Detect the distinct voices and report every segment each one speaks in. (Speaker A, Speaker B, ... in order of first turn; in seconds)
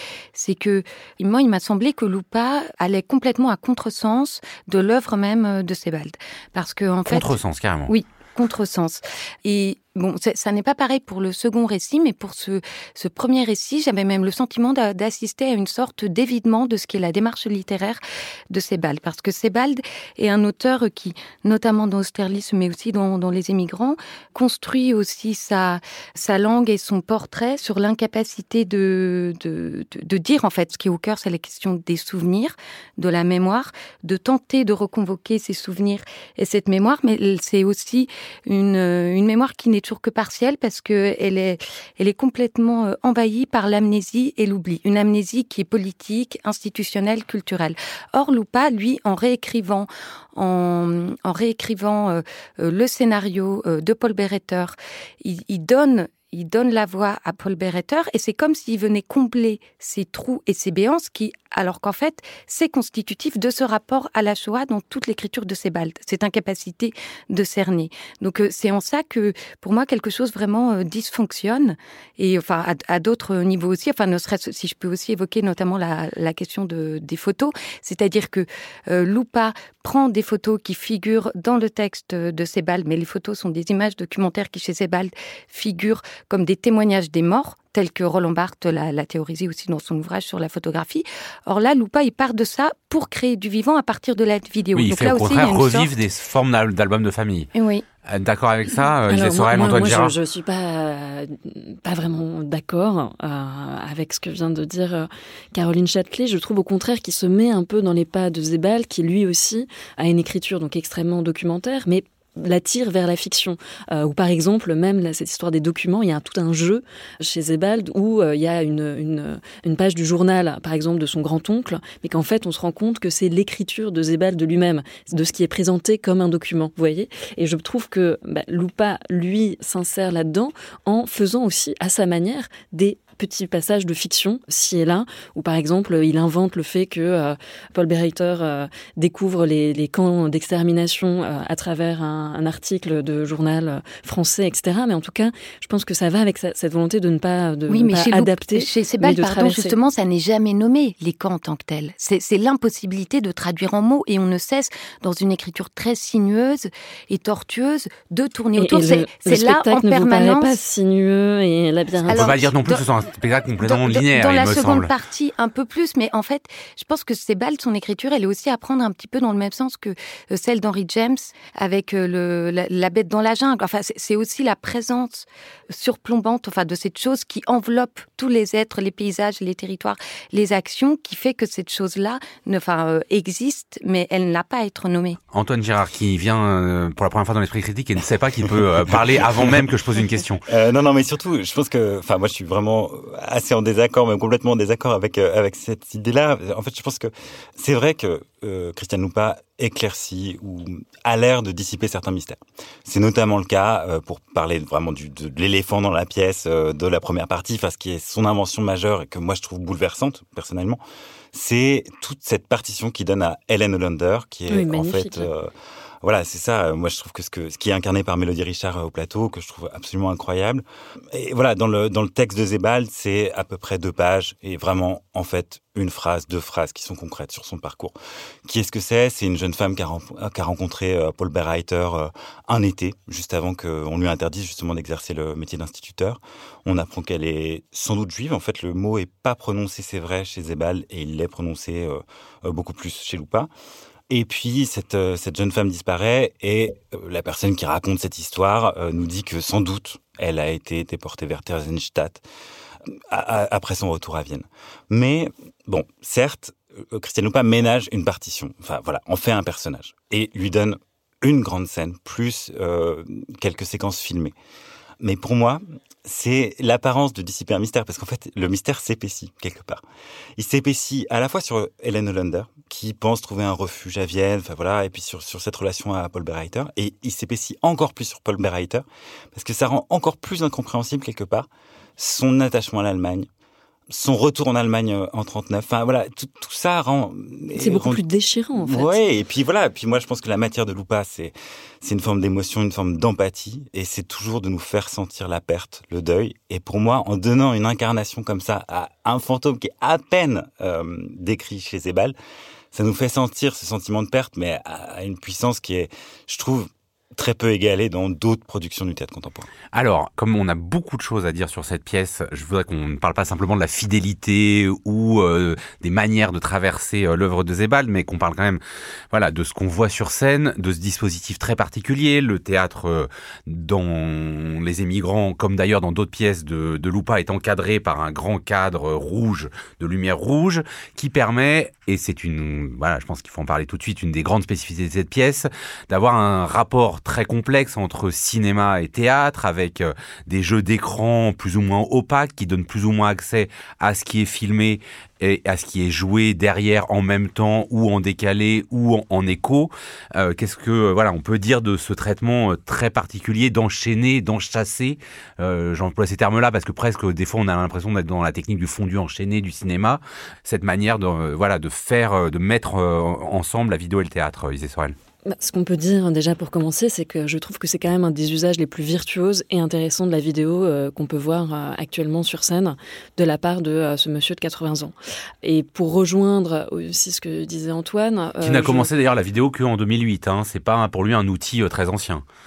Speaker A: 0.3-7.4, 7.9-95.9, 97.6-97.8, 147.7-160.6, 162.1-162.8, 163.6-185.2
Speaker B: 7.1-7.9, 94.8-97.5, 98.1-100.1, 162.1-164.9, 185.3-190.4, 309.7-318.6, 319.1-364.9, 378.4-382.2
Speaker C: 99.1-149.8, 158.6-162.4, 214.5-215.3, 287.6-289.0, 365.3-378.9
Speaker D: 188.9-189.7, 190.5-210.8, 211.3-243.5, 244.1-252.2, 252.8-264.4, 265.0-269.8, 270.4-283.3, 283.9-288.0, 288.6-302.1, 302.7-309.5